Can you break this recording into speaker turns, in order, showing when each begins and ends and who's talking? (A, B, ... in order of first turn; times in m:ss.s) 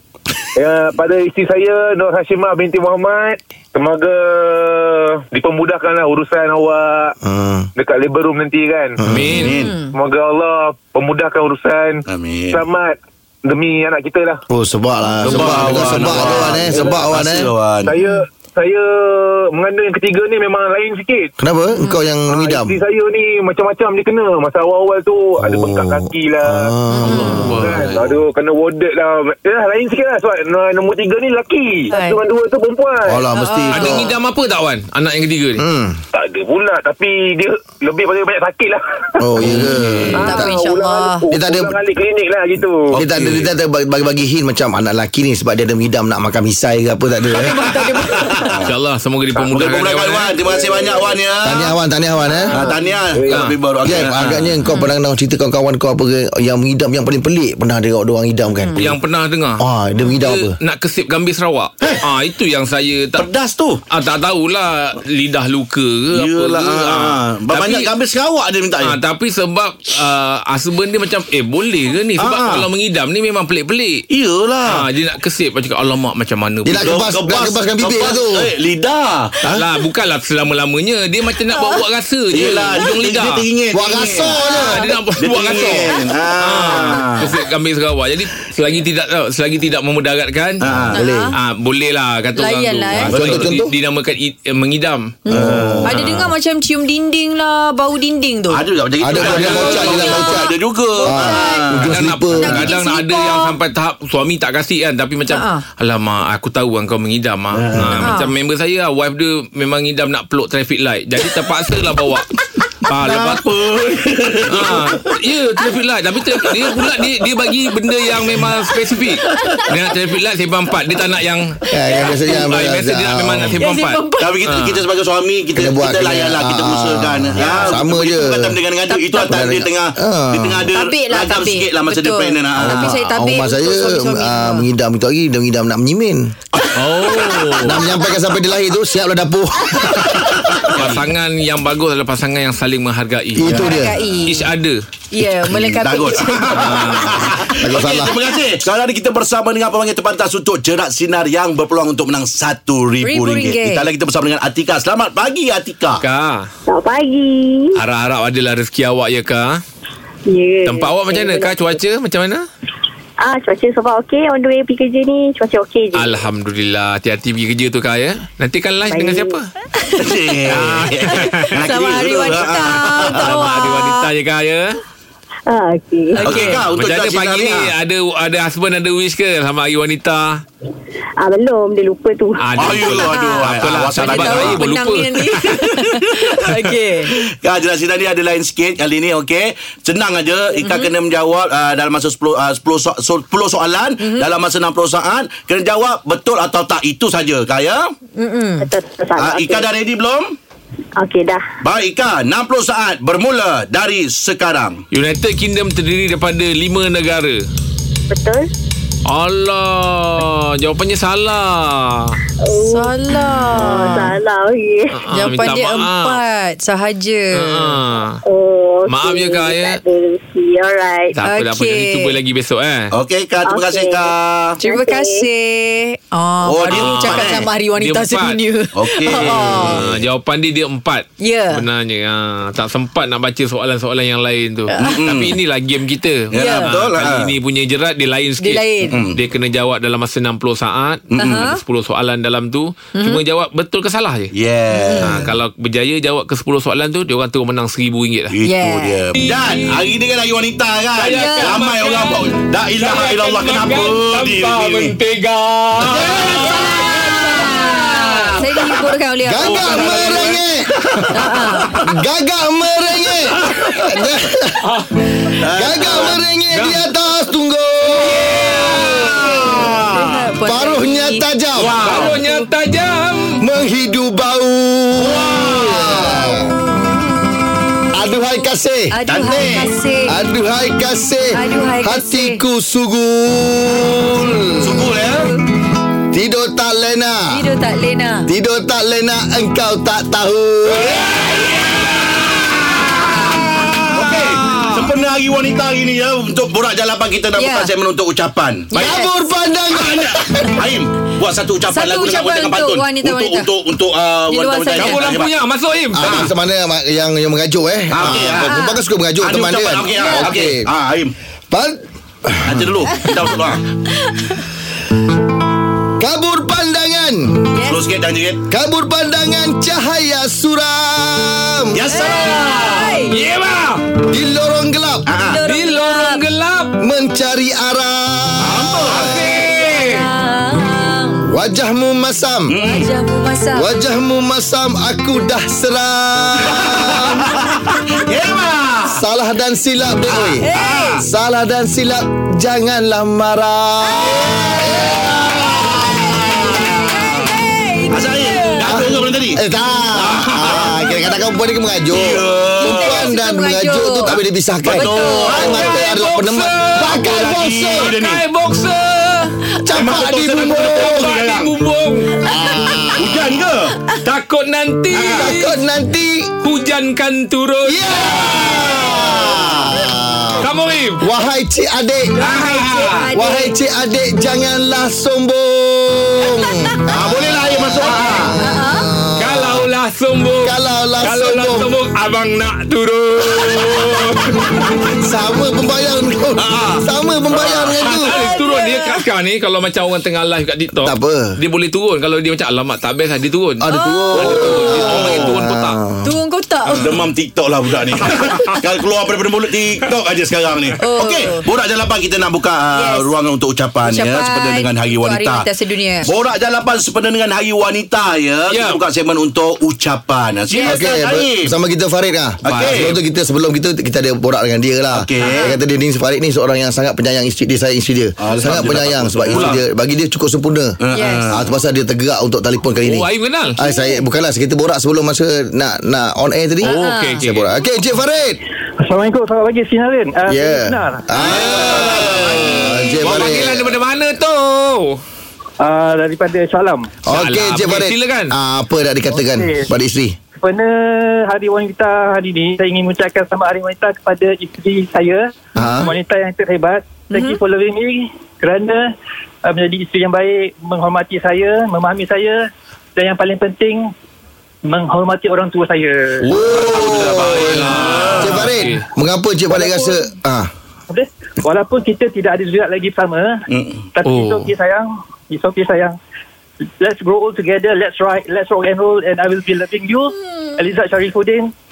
0:00.6-0:07.2 A
0:07.2-0:07.7 B
0:07.8-0:09.0 A
0:09.0-0:09.5 B
0:09.1-0:09.6 C
0:09.4-0:09.8 D
0:09.6-0:10.0 E
0:09.9-0:14.4 A
0:12.1-0:12.6 D
0:14.5-0:17.5 B
0:15.2-0:17.9 D
0:15.2-0:16.8 C
0:16.7-0:17.1 A
0:17.8-0:21.3 A
0:18.0-0:18.2 E
0:21.4-0:22.8 B
0:22.3-0:26.7 A
0:25.4-0:27.6 B
0:26.9-0:27.5 E
0:27.1-0:27.9 C
0:27.6-0:33.2 A
0:31.9-0:32.2 E
0:33.1-0:34.1 B
0:33.3-0:34.1 E
0:33.7-0:35.6 C
0:35.6-0:36.0 B
0:36.1-0:39.5 A
0:39.2-0:40.5 B
0:39.4-0:40.3 C
0:40.1-0:43.0 A
0:40.2-0:41.3 E
0:41.3-0:41.7 B
0:42.9-0:43.5 D
0:43.0-0:47.6 B
0:47.3-0:48.6 E
0:48.0-0:48.7 D
0:48.7-0:50.4 C
0:49.5-0:51.7 D
0:50.4-0:51.2 A
0:51.4-0:52.5 B
0:52.5-0:53.6 A
0:52.5-0:54.5 D
0:53.8-0:59.0 B
0:54.7-0:54.9 E
0:58.8-0:59.6 C
0:59.6-1:00.6 B
1:00.2-1:03.3 C
1:03.2-1:03.8 D
1:03.9-1:07.9 C
1:06.1-1:09.0 D
1:08.8-1:14.0 C
1:12.2-1:12.7 D
1:14.1-1:14.9 D
1:14.7-1:17.1 C
1:16.6-1:18.5 B
1:16.8-1:19.6 D
1:19.5-1:23.4 C
1:22.3-1:24.4 D
1:23.7-1:24.9 B
1:24.1-1:25.0 E
1:24.6-1:30.6 C
1:25.2-1:27.4 D
1:30.6-1:31.0 D
1:30.7-1:31.3 B
1:30.9-1:31.4 E
1:31.4-1:35.2 C
1:32.4-1:33.1 E
1:33.1-1:33.7 B
1:33.1-1:33.6 D
1:35.2-1:38.6 E
1:35.3-1:36.0 D
1:35.4-1:36.1 B
1:35.9-1:36.3 C
1:38.5-1:42.0 D
1:39.0-1:40.5 B
1:39.2-1:40.3 C
1:39.5-1:40.3 E
1:41.0-1:41.7 E
1:41.1-1:42.7 B
1:41.9-1:52.3 C
1:42.4-1:43.6 E
1:42.5-1:42.8 D
1:45.3-1:45.6 E
1:47.5-1:48.2 D
1:48.0-1:48.3 E
1:52.9-1:53.4 C
1:52.9-1:55.2 D
1:54.5-2:01.6 C
1:59.3-1:59.7 D
2:01.7-2:03.6 B
2:02.1-2:04.8 C
2:03.6-2:04.4 E
2:04.2-2:12.9 D
2:05.6-2:08.6 B
2:07.4-2:07.8 E
2:08.9-2:09.3 E
2:09.2-2:10.8 B
2:10.7-2:14.7 E
2:12.6-2:16.3 B
2:16.6-2:17.5 D
2:16.8-2:17.8 C
2:17.6-2:20.4 B
2:20.4-2:21.0 D
2:20.8-2:23.7 C
2:23.4-2:24.2 B
2:23.4-2:24.4 E
2:24.3-2:24.8 C
2:25.1-2:27.2 E
2:25.5-2:36.0 D
2:26.6-2:27.2 C
2:27.6-2:28.2 B
2:33.0-2:33.9 E
2:36.0-2:36.5 C
2:36.7-2:37.8 F
2:37.8-2:39.6 C
2:40.3-2:41.6 F
2:40.7-2:42.4 C
2:43.2-2:46.2 F
2:46.0-2:49.5 C
2:48.9-2:49.4 F
2:49.8-2:50.1 E
2:50.0-2:53.5 D
2:50.5-2:51.7 C
2:51.3-2:54.1 E
2:53.0-2:54.8 C
2:55.5-2:56.2 F
2:56.1-2:56.6 E
2:56.2-2:57.7 D
2:56.3-3:00.4 C
3:01.2-3:02.4 F
3:02.4-3:05.5 C
3:02.6-3:04.6 D
3:03.1-3:03.5 E
3:04.0-3:07.1 E
3:06.0-3:06.4 D
3:07.2-3:17.9 D
3:10.6-3:10.9 E
3:14.0-3:14.3 E
3:18.2-3:18.7 E
3:18.6-3:19.7 F
3:19.2-3:20.4 D
3:21.0-3:21.4 F
3:21.6-3:24.8 D
3:24.9-3:27.4 C
3:28.1-3:28.4 F
3:29.1-3:32.2 C
3:32.4-3:35.0 F
3:32.5-3:34.1 E
3:34.9-3:36.2 C
3:35.1-3:37.8 E
3:37.3-3:38.2 C
3:38.2-3:41.2 F
3:38.9-3:39.8 C
3:41.2-3:42.9 C
3:41.2-3:42.2 E
3:42.9-3:44.6 D
3:43.4-3:45.2 F
3:44.6-3:49.8 E
3:46.4-3:47.5 D
3:46.7-3:48.4 C
3:48.7-3:50.0 D
3:49.2-4:04.3 C
3:51.2-3:51.6 E
3:54.7-3:55.0 E
3:54.8-3:55.4 D
3:56.3-3:57.4 D
3:56.3-3:56.8 E
3:58.4-3:59.0 E
3:58.8-3:59.2 D
4:01.1-4:01.5 D
4:01.2-4:01.6 E
4:03.0-4:03.2 E
4:04.3-4:05.3 D
4:04.7-4:05.2 E
4:05.0-4:08.3 C
4:08.3-4:15.0 D
4:08.4-4:09.0 E
4:09.2-4:09.8 C
4:11.0-4:18.4 C
4:11.1-4:11.6 E
4:15.8-4:17.3 D
4:16.2-4:20.0 E
4:19.2-4:20.6 B
4:19.4-4:20.4 C
4:19.6-4:20.1 D
4:20.8-4:21.8 D
4:21.1-4:21.8 E
4:21.8-4:24.7 B
4:25.4-4:26.2 D
4:25.6-4:29.2 B
4:26.5-4:26.8 C
4:28.0-4:29.5 C
4:29.0-4:31.3 E
4:29.1-4:30.1 D
4:30.4-4:31.8 B
4:31.6-4:32.2 D
4:31.7-4:33.4 C
4:31.9-4:32.5 E
4:33.4-4:36.6 B
4:35.0-4:36.0 D
4:35.4-4:36.0 C
4:36.6-4:37.4 E
4:37.9-4:38.9 B
4:38.9-4:40.2 E
4:39.0-4:39.7 D
4:40.1-4:44.9 B
4:41.3-4:42.4 E
4:44.6-4:45.3 D
4:46.1-4:47.4 B
4:47.3-4:48.3 E
4:48.3-4:51.0 B
4:51.0-4:51.8 C
4:52.7-4:53.7 E
4:53.6-4:59.0 D
4:57.4-4:57.7 E
4:58.7-5:00.7 B
4:58.8-4:59.1 E
4:59.8-5:05.3 D
5:01.7-5:03.5 E
5:04.3-5:05.1 E
5:04.8-5:06.3 C
5:06.0-5:10.6 B
5:06.0-5:06.3 D
5:07.9-5:08.6 D
5:08.3-5:08.8 E
5:09.2-5:11.1 D
5:09.9-5:10.3 E
5:11.5-5:12.7 B
5:12.4-5:13.6 D
5:14.0-5:14.4 E
5:16.0-5:17.4 B
5:17.5-5:17.8 E
5:17.6-5:18.4 D
5:18.5-5:21.8 B
5:21.7-5:23.1 D
5:21.9-5:23.2 E
5:23.1-5:23.8 C
5:24.1-5:25.0 B
5:25.1-5:25.4 D
5:25.3-5:26.2 E
5:25.5-5:26.8 C
5:26.8-5:29.0 B
5:28.4-5:29.4 D
5:28.9-5:30.1 C
5:29.4-5:31.3 E
5:31.3-5:32.5 B
5:32.5-5:32.9 D
5:32.5-5:33.7 E
5:33.6-5:37.3 B
5:36.5-5:39.0 D
5:38.9-5:40.4 B
5:40.1-5:41.0 D
5:40.4-5:41.0 E
5:41.0-5:45.1 B
5:43.8-5:48.9 E
5:44.1-5:47.3 D
5:47.9-5:49.4 D
5:48.7-5:57.9 B
5:50.0-5:50.8 D
5:50.4-5:50.6 C
5:51.9-5:53.1 D
5:52.6-5:54.1 E
5:54.1-5:55.7 D
5:54.7-5:55.8 E
5:55.4-5:57.2 C
5:56.9-5:58.2 D
5:57.8-5:59.4 C
5:59.7-6:01.1 B
5:59.7-6:01.6 D
6:00.6-6:02.1 C
6:02.2-6:03.0 E
6:02.2-6:03.2 B
6:03.0-6:03.8 D
6:04.0-6:05.6 C
6:05.0-6:05.3 D
6:05.0-6:06.3 B
6:06.4-6:08.1 C
6:07.6-6:10.5 B
6:08.1-6:09.6 D
6:10.4-6:11.0 C
6:11.0-6:12.2 B
6:12.1-6:13.5 E
6:12.2-6:13.0 C
6:13.2-6:19.7 B
6:16.9-6:18.4 D
6:17.8-6:18.9 E
6:19.2-6:24.7 C
6:20.4-6:21.7 B
6:25.0-6:28.2 B
6:26.4-6:26.8 D
6:27.5-6:33.7 C
6:28.0-6:29.0 E
6:30.8-6:31.4 B
6:33.6-6:36.2 B
6:33.7-6:34.2 E
6:34.1-6:35.4 D
6:34.2-6:35.8 C
6:36.0-6:37.0 E
6:36.8-6:45.5 D
6:38.1-6:38.6 C
6:40.8-6:41.4 E
6:42.7-6:43.1 E
6:43.8-6:46.1 E
6:46.0-6:51.5 D
6:48.5-6:48.8 C
6:50.5-6:50.8 E
6:50.6-7:00.8 B
6:52.4-6:52.9 D
6:52.4-6:53.0 C
6:54.9-6:55.5 D
6:55.2-6:55.5 E
6:58.2-6:59.6 D
6:59.3-6:59.6 C
7:00.8-7:01.4 D
7:00.9-7:01.4 E
7:01.3-7:08.4 B
7:02.8-7:03.6 C
7:06.6-7:07.2 E
7:06.6-7:07.5 C
7:08.8-7:11.2 G
7:10.3-7:13.8 B
7:11.2-7:15.0 C
7:11.2-7:12.6 D
7:15.6-7:16.9 G
7:17.1-7:20.2 B
7:17.1-7:18.3 C
7:19.1-7:19.7 G
7:20.4-7:28.9 G
7:25.6-7:25.9 B
7:27.1-7:27.4 E
7:29.4-7:33.9 G
7:34.6-7:36.2 G
7:36.2-7:38.8 C
7:36.3-7:40.5 B
7:37.8-7:38.4 D
7:39.5-7:40.1 G
7:40.9-7:46.0 G
7:43.5-7:43.8 D
7:44.0-7:44.5 C
7:46.8-7:51.5 G